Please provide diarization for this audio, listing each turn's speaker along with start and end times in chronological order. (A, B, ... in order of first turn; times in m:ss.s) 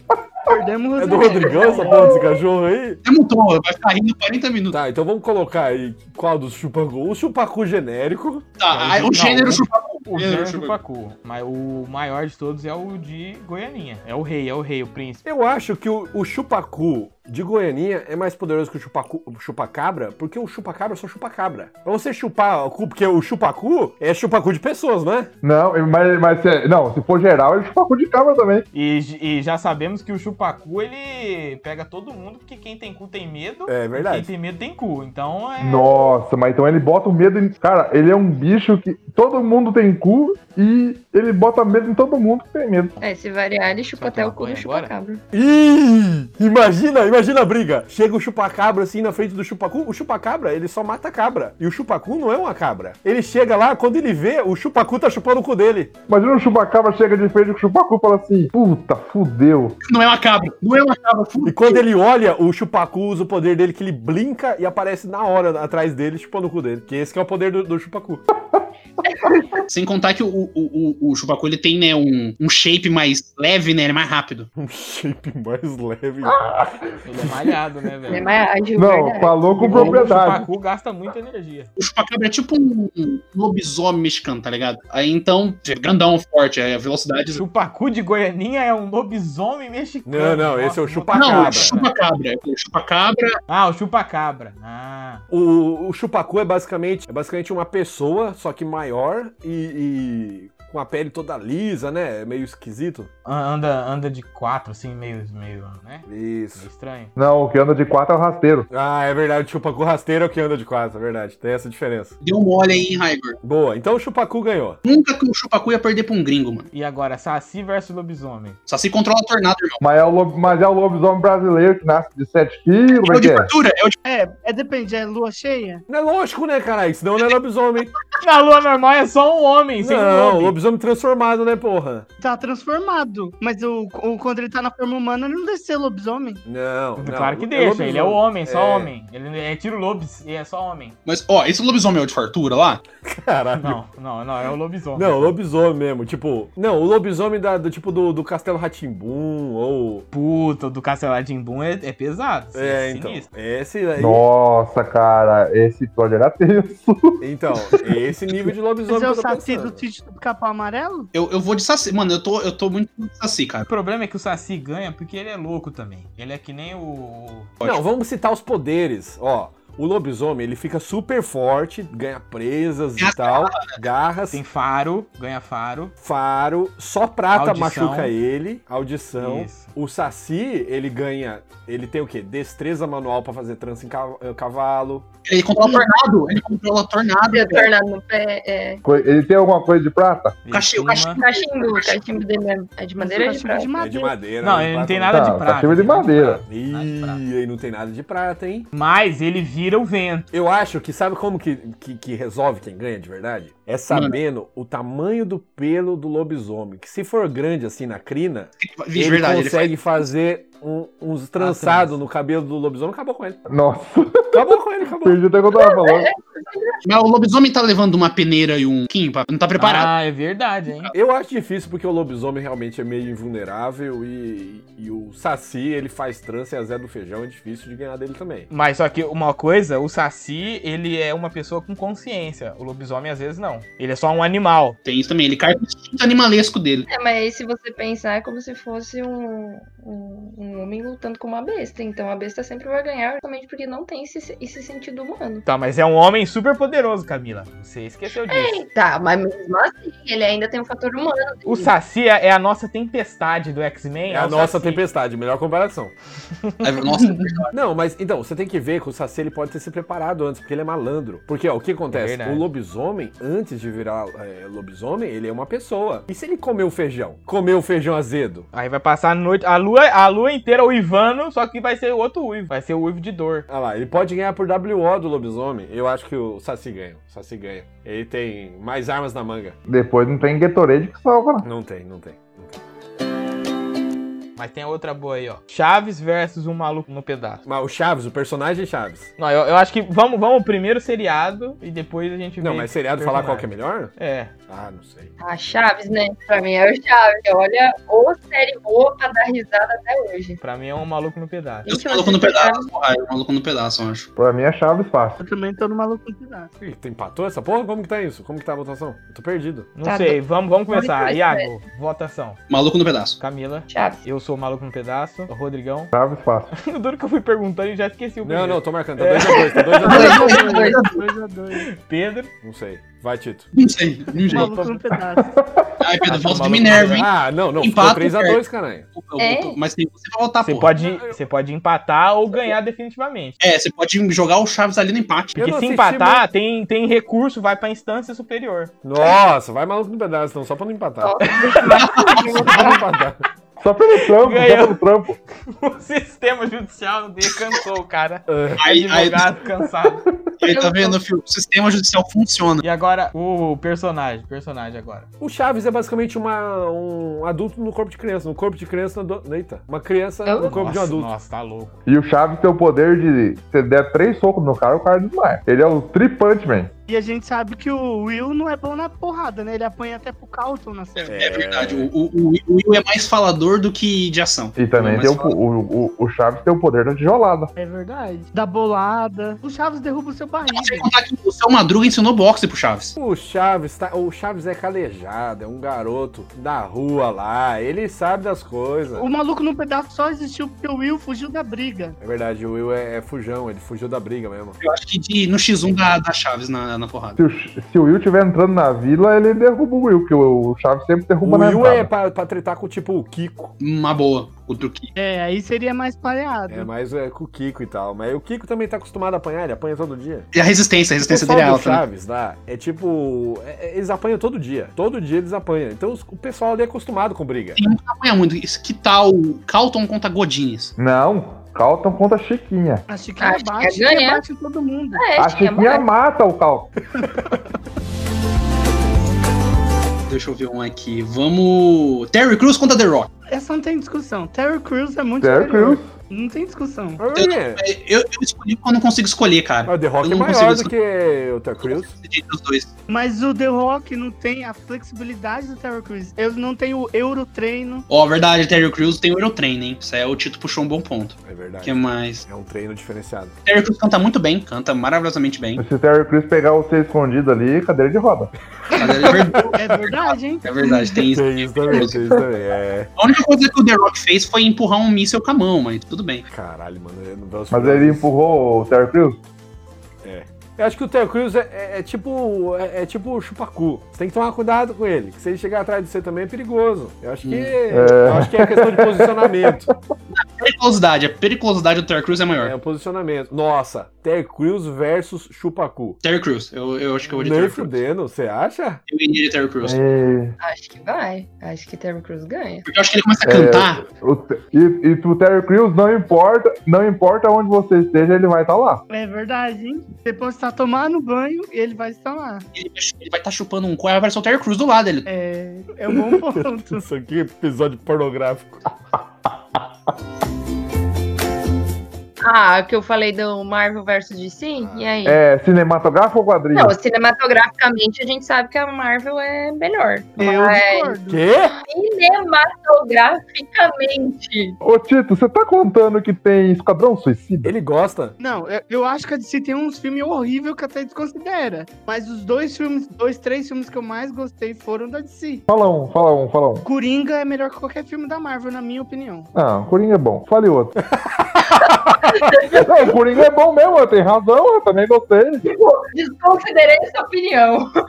0:00.5-0:02.3 A
0:01.0-0:03.0 B
0:03.0-0:04.8 C
0:04.7-0:08.5 B
0:08.6-0:10.8 C
0:08.7-0:15.2 D
0:15.2-0:25.3 B
0:25.4-0:28.6 E
0:28.7-0:36.1 D
0:33.7-0:34.3 B
0:35.6-0:43.0 E
0:43.0-0:45.2 F
0:43.9-0:44.9 D
0:45.3-0:55.9 B
0:56.1-0:59.8 E
0:59.8-1:01.8 C
1:01.4-1:08.2 B
1:09.7-1:14.5 C
1:14.6-1:16.6 B
1:16.2-1:16.8 E
1:17.0-1:18.3 D
1:18.1-1:19.4 F
1:18.8-1:20.5 E
1:19.6-1:21.7 D
1:21.8-1:27.4 C
1:27.4-1:31.9 D
1:30.0-1:31.8 B
1:31.1-1:33.4 C
1:33.5-1:35.2 D
1:35.3-1:43.1 B
1:43.2-1:47.1 D
1:46.0-1:46.7 B
1:47.2-1:48.7 E
1:48.7-1:52.1 B
1:52.2-1:53.4 C
1:53.4-1:54.8 B
1:54.8-1:56.7 C
1:56.7-1:58.6 D
1:58.7-1:59.8 C
1:59.8-2:03.5 E
2:03.0-2:04.0 C
2:04.0-2:05.8 A
2:05.9-2:07.9 B
2:08.2-2:10.6 D
2:09.8-2:12.0 B
2:12.2-2:16.4 A
2:16.4-2:18.9 B
2:17.0-2:20.9 D
2:21.0-2:22.8 C
2:23.0-2:23.8 B
2:23.6-2:25.3 D
2:24.9-2:30.0 B
2:30.1-2:33.3 D
2:32.5-2:34.2 B
2:34.0-2:37.2 E
2:37.2-2:39.8 B
2:38.9-2:41.1 A
2:41.1-2:43.7 C
2:43.7-2:47.5 D
2:47.6-2:54.4 B
2:53.0-2:53.8 C
2:54.3-2:55.9 D
2:56.0-3:05.0 B
2:57.3-2:58.1 D
2:59.2-2:59.7 D
3:05.2-3:07.7 C
3:07.3-3:08.8 F
3:08.8-3:10.4 E
3:10.4-3:11.2 D
3:10.5-3:12.0 C
3:11.2-3:13.7 F
3:13.0-3:14.1 A
3:13.8-3:15.3 B
3:14.4-3:17.2 D
3:15.1-3:16.4 E
3:16.4-3:18.7 B
3:18.7-3:20.3 D
3:20.3-3:33.4 B
3:23.9-3:24.2 C
3:28.6-3:30.0 C
3:31.4-3:32.0 D
3:33.5-3:36.1 E
3:34.3-3:35.2 B
3:35.5-3:36.8 F
3:36.8-3:39.9 C
3:39.6-3:40.9 D
3:40.9-3:48.5 B
3:48.5-3:54.8 D
3:54.8-3:56.9 C
3:56.9-4:05.4 F
4:05.4-4:08.6 D
4:08.3-4:11.7 F
4:11.4-4:14.8 D
4:14.1-4:15.9 B
4:16.6-4:17.5 C
4:17.5-4:28.5 B
4:21.9-4:22.4 D
4:28.5-4:33.4 D
4:33.5-4:39.6 B
4:39.7-4:41.4 E
4:41.4-4:42.6 B
4:44.4-4:47.4 D
4:47.4-4:49.1 B
4:49.2-4:54.3 D
4:52.4-4:55.1 B
4:55.2-5:00.4 F
5:00.4-5:01.7 D
5:01.7-5:04.1 C
5:01.7-5:02.7 F
5:04.2-5:05.2 E
5:05.2-5:06.5 A
5:06.6-5:09.7 B
5:09.8-5:12.4 D
5:09.8-5:10.2 F
5:10.7-5:11.5 F
5:12.5-5:13.2 C
5:13.2-5:15.9 D
5:13.7-5:14.0 F
5:15.9-5:16.5 E
5:16.6-5:19.8 D
5:18.2-5:20.4 B
5:19.8-5:21.0 C
5:19.8-5:21.7 A
5:19.8-5:20.8 F
5:21.6-5:22.3 D
5:22.4-5:23.5 B
5:23.5-5:24.5 C
5:24.3-5:24.8 D
5:24.3-5:25.3 A
5:25.2-5:25.9 E
5:25.8-5:28.4 C
5:26.0-5:27.1 D
5:26.7-5:28.9 B
5:28.9-5:30.7 C
5:29.2-5:29.6 F
5:30.4-5:33.4 D
5:33.4-5:35.4 C
5:35.3-5:36.2 B
5:35.4-5:38.7 D
5:38.8-5:43.2 B
5:41.0-5:42.8 F
5:41.4-5:42.0 D
5:41.7-5:42.5 C
5:43.6-5:45.2 E
5:44.2-5:44.8 D
5:45.4-5:50.1 D
5:48.3-5:48.6 B
5:48.6-5:49.2 C
5:50.4-5:52.6 C
5:50.4-5:51.0 F
5:52.6-5:55.1 D
5:55.2-6:01.1 B
6:00.2-6:00.7 F
6:00.5-6:01.7 D
6:01.9-6:06.7 E
6:06.9-6:11.2 A
6:11.0-6:11.9 B
6:11.1-6:15.3 C
6:14.6-6:17.5 E
6:17.6-6:20.9 A
6:20.4-6:22.9 C
6:23.0-6:29.0 B
6:28.9-6:32.0 A
6:32.0-6:34.6 B
6:34.6-6:37.2 C
6:37.2-6:41.9 E
6:41.2-6:43.5 B
6:43.6-6:44.9 C
6:44.9-6:46.7 A
6:46.5-6:50.3 B
6:50.3-6:51.8 C
6:51.0-6:57.6 B
6:57.6-7:00.7 C
7:00.8-7:02.8 E
7:02.9-7:05.0 A
7:03.2-7:04.2 F
7:05.0-7:05.9 F
7:05.2-7:06.7 E
7:07.0-7:07.3 B
7:10.1-7:13.1 C
7:13.3-7:17.0 A
7:15.2-7:15.9 E
7:17.0-7:17.6 B
7:17.1-7:20.7 C
7:19.6-7:21.9 B
7:21.6-7:22.7 C
7:22.9-7:27.8 A
7:27.9-7:32.2 C
7:31.2-7:33.3 B
7:33.4-7:35.6 C
7:35.6-7:38.3 E
7:38.7-7:42.2 C
7:38.8-7:39.4 B
7:39.5-7:41.0 A
7:41.1-7:42.9 B
7:43.0-7:46.2 C
7:46.3-7:48.1 B
7:47.5-7:49.2 E
7:50.0-7:59.7 B
7:57.2-7:57.5 C
7:57.7-7:59.7 E
8:00.1-8:02.5 C
8:02.4-8:06.0 B
8:06.0-8:07.8 C
8:07.1-8:08.8 B
8:08.9-8:09.8 C
8:09.6-8:10.4 E
8:10.4-8:12.6 F
8:12.6-8:13.8 C
8:13.2-8:18.8 E
8:18.9-8:22.4 A
8:22.5-8:25.1 C
8:25.0-8:26.9 A
8:25.9-8:28.6 B
8:32.2-8:35.2 F
8:34.6-8:35.0 B
8:35.0-8:36.8 E
8:36.5-8:41.0 F
8:40.2-8:41.2 A
8:41.1-8:41.6 B
8:41.6-8:44.6 F
8:44.6-8:47.5 E
8:47.4-8:48.1 B
8:48.2-8:55.4 A
8:55.5-8:56.7 E
8:56.6-8:59.3 A
8:59.3-9:00.8 E
9:00.9-9:02.1 B
9:02.1-9:02.6 F
9:02.5-9:05.4 E
9:05.5-9:07.7 F